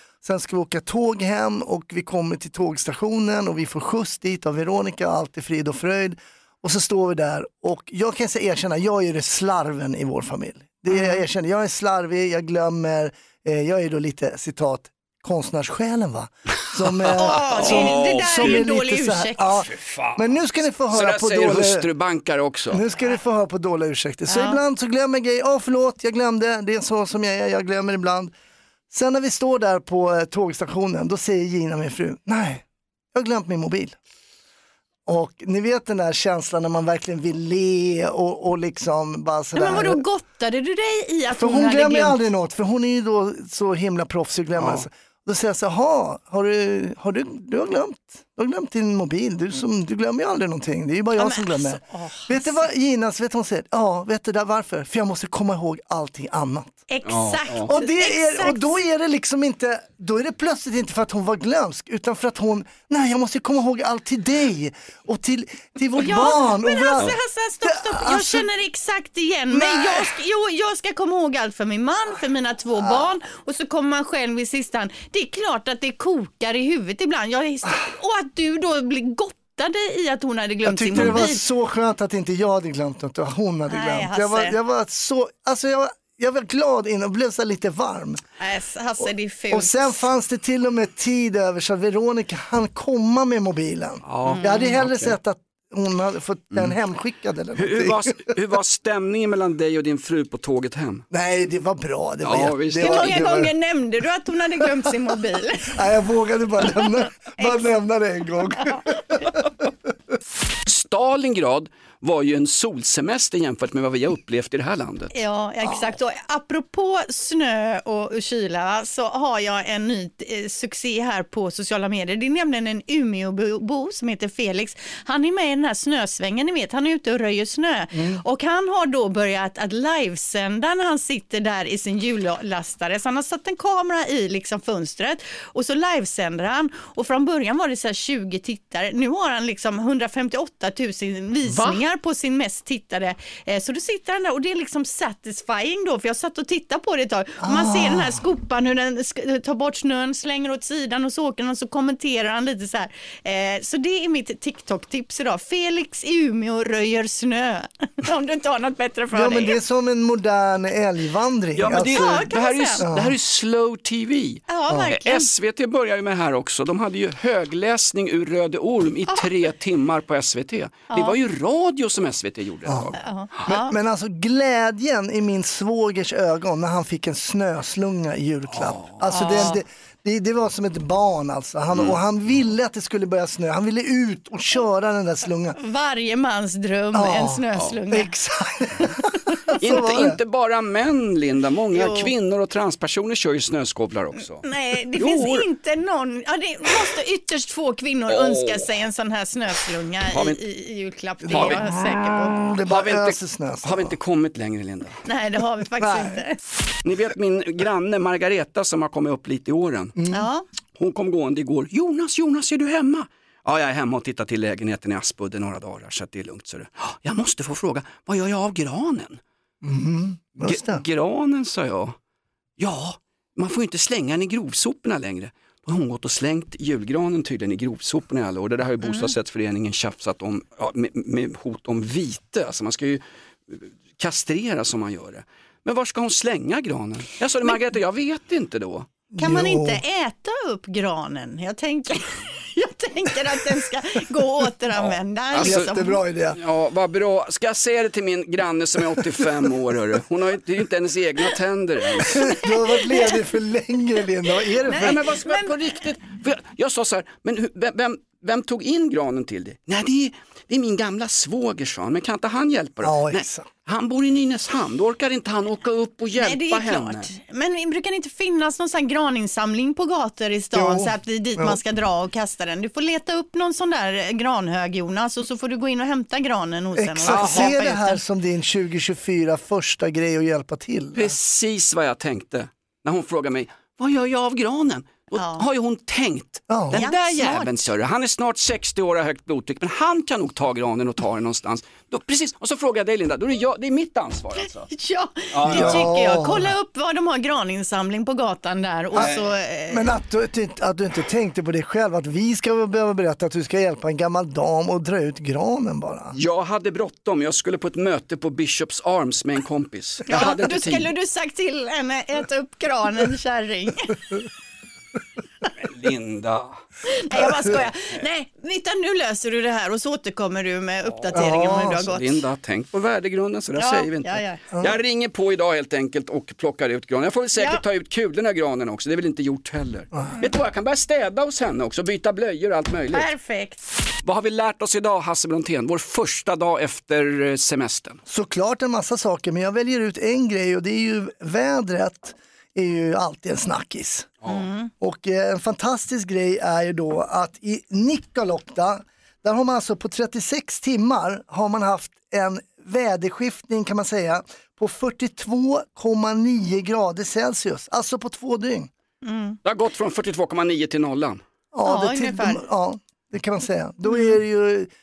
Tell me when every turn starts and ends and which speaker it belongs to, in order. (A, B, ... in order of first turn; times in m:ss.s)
0:00.2-0:21.9 A
0:10.9-0:11.2 B
0:17.1-0:19.6 B
0:17.5-0:18.7 C
0:19.7-0:22.8 C
0:22.7-0:28.3 A
0:24.3-0:24.6 B
0:28.9-0:34.0 A
0:35.1-0:40.0 A
0:39.6-0:42.2 B
0:41.3-0:56.8 A
0:44.6-0:44.8 C
0:51.2-0:52.6 B
0:56.9-0:58.8 B
0:57.0-0:57.7 C
0:57.7-1:08.5 A
1:06.0-1:21.4 B
1:09.5-1:10.2 A
1:20.6-1:28.2 A
1:21.0-1:21.2 C
1:23.7-1:24.6 B
1:28.4-1:30.0 B
1:29.5-1:38.4 A
1:34.0-1:35.1 C
1:34.2-1:34.7 B
1:37.6-1:41.0 C
1:41.1-1:43.5 A
1:42.2-1:43.3 C
1:42.8-1:45.8 B
1:45.7-1:49.4 A
1:47.4-1:47.6 B
1:50.7-1:55.1 C
1:55.1-2:39.6 B
1:55.7-1:55.9 A
2:07.9-2:08.2 A
2:21.5-2:21.8 C
2:27.4-2:28.2 A
2:39.1-2:42.3 A
2:41.6-2:53.0 C
2:41.7-2:42.8 B
2:42.8-2:43.2 A
2:44.5-2:45.3 B
2:50.9-2:51.2 B
2:52.7-2:52.9 A
2:53.0-2:53.8 B
2:53.4-3:05.6 A
2:58.5-2:59.4 C
2:59.1-2:59.6 B
3:05.6-3:08.1 B
3:06.9-3:10.2 A
3:09.6-3:15.5 C
3:11.7-3:12.1 B
3:14.4-3:22.4 B
3:18.1-3:18.7 C
3:20.1-3:20.4 C
3:21.2-3:24.0 A
3:21.3-3:21.6 C
3:22.7-3:25.0 C
3:25.0-3:26.4 B
3:25.8-3:26.2 A
3:26.8-3:30.0 C
3:30.0-3:30.3 A
3:30.1-3:30.5 B
3:30.8-3:39.2 C
3:39.6-3:40.8 A
3:40.4-3:42.0 C
3:42.6-3:58.9 C
3:48.8-3:49.1 B
3:59.1-3:59.8 A
3:59.2-4:06.0 B
4:04.8-4:05.8 C
4:05.4-4:06.4 A
4:06.4-4:12.2 C
4:12.0-4:15.0 A
4:12.1-4:13.2 B
4:14.6-4:15.6 B
4:14.7-4:27.1 C
4:22.8-4:23.5 A
4:26.2-4:38.0 B
4:30.5-4:31.6 A
4:36.8-4:41.2 A
4:37.1-4:37.6 C
4:41.0-4:54.7 C
4:45.2-4:45.4 B
4:46.5-4:46.8 A
4:46.8-4:47.7 B
4:54.7-4:59.9 B
4:55.3-4:55.8 C
4:55.5-4:56.5 A
4:59.0-5:06.2 A
4:59.0-4:59.2 C
5:06.2-5:10.9 C
5:10.1-5:14.0 B
5:15.6-5:16.6 C
5:16.8-5:22.2 B
5:20.8-5:33.1 C
5:21.1-5:21.8 A
5:23.6-5:24.4 B
5:27.4-5:27.6 B
5:32.9-5:33.6 B
5:34.0-5:38.0 C
5:38.1-5:44.1 A
5:44.2-5:44.5 C
5:44.3-5:44.7 B
5:44.8-5:58.7 A
5:59.0-5:59.4 B
5:59.4-6:01.2 C
6:01.5-6:04.7 A
6:01.6-6:02.4 B
6:03.9-6:04.2 B